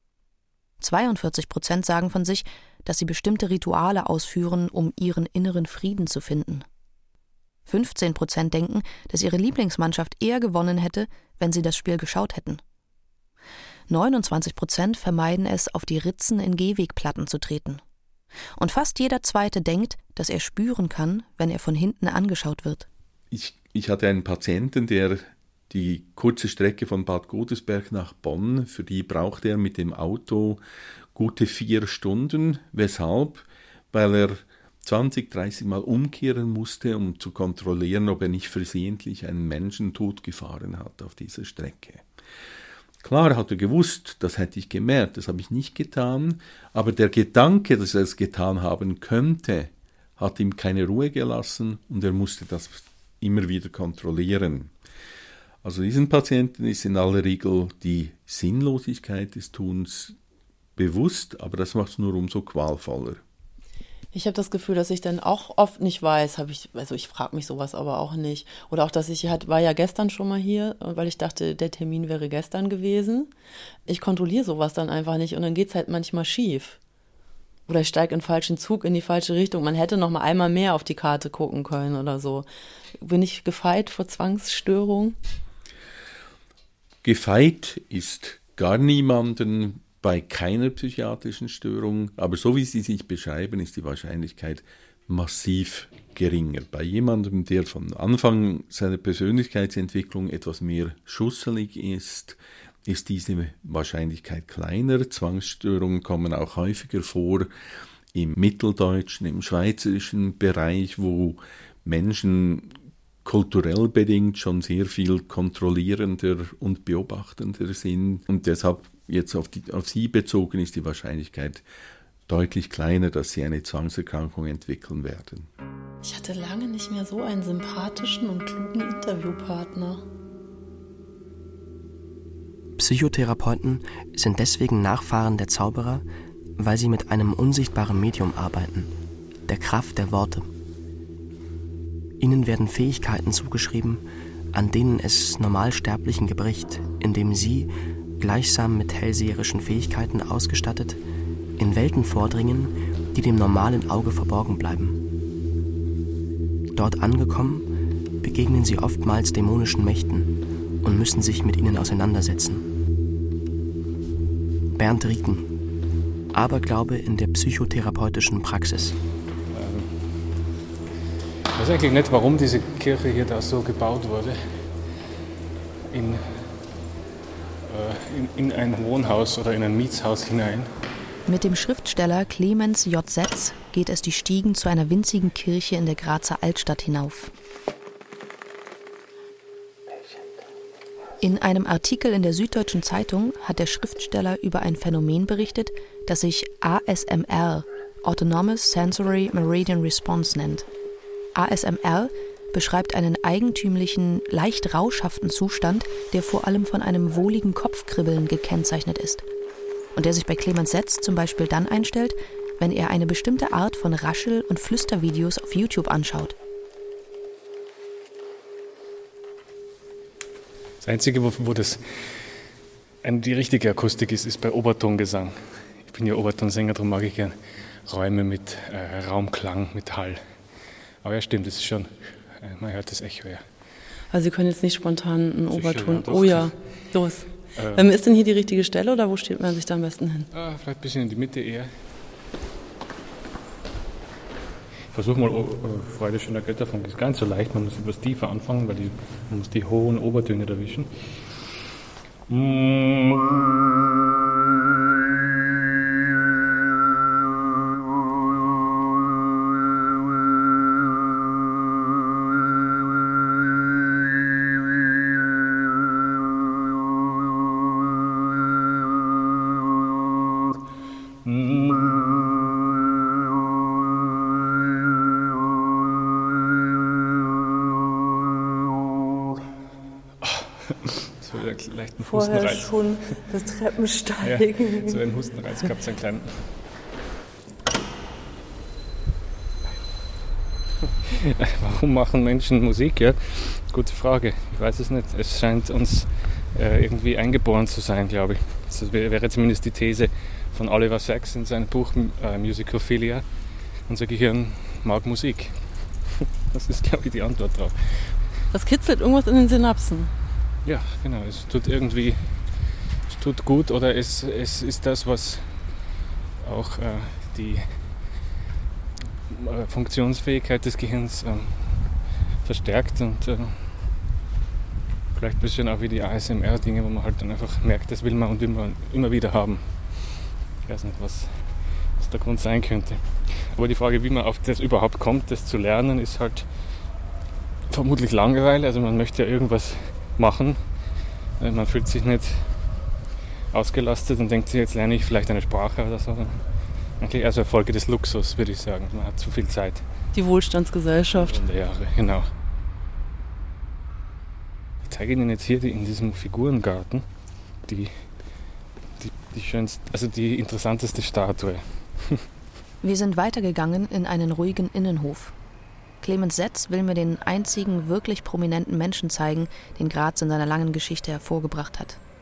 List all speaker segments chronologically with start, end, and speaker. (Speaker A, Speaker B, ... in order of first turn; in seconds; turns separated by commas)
Speaker A: 0.8-6.7, Speaker A: 7.7-12.6, Speaker A: 13.9-17.8, Speaker A: 18.6-22.9, Speaker B: 23.3-30.6, Speaker B: 31.1-42.0, Speaker B: 43.0-54.7, Speaker B: 55.6-60.2, Speaker B: 60.8-63.2, Speaker C: 64.1-73.3, Speaker C: 73.9-76.8, Speaker C: 77.7-82.5, Speaker C: 83.0-85.2, Speaker B: 87.0-107.5, Speaker B: 108.1-121.6, Speaker B: 122.3-125.5, Speaker C: 126.0-130.0, Speaker D: 132.8-136.1, Speaker D: 136.6-138.9, Speaker D: 139.5-140.5, Speaker D: 142.2-144.0, Speaker D: 144.5-151.0, Speaker D: 151.6-155.0, Speaker D: 156.8-157.7, Speaker D: 158.2-160.3, Speaker D: 160.8-162.7, Speaker D: 164.8-165.5, Speaker D: 166.3-169.0, Speaker E: 169.5-169.9, Speaker E: 171.5-174.6, Speaker E: 175.9-176.5, Speaker E: 177.7-180.7, Speaker A: 181.3-187.3, Speaker A: 191.2-200.7, Speaker A: 201.3-209.3, Speaker A: 209.9-216.4, Speaker E: 220.8-222.2, Speaker E: 223.0-230.2, Speaker E: 231.0-233.4, Speaker C: 234.1-240.3, Speaker E: 235.5-236.5, Speaker E: 237.6-237.9, Speaker E: 240.3-241.7, Speaker E: 244.9-250.9, Speaker E: 252.3-253.4, Speaker E: 271.2-271.7, Speaker E: 280.2-283.1, Speaker C: 282.0-285.0, Speaker E: 284.2-286.3, Speaker E: 291.1-303.3, Speaker E: 303.9-308.1, Speaker C: 308.5-310.1, Speaker E: 310.6-312.4, Speaker E: 313.1-315.6, Speaker E: 316.4-317.8, Speaker E: 319.3-321.9, Speaker E: 322.4-323.7, Speaker E: 325.1-336.5, Speaker E: 337.7-340.6, Speaker E: 341.4-342.5, Speaker E: 343.5-346.4, Speaker E: 347.0-349.9, Speaker C: 350.1-351.4, Speaker E: 351.2-352.3, Speaker E: 354.8-357.1, Speaker E: 357.6-358.1, Speaker E: 359.0-362.2, Speaker A: 362.8-365.4, Speaker A: 366.0-372.0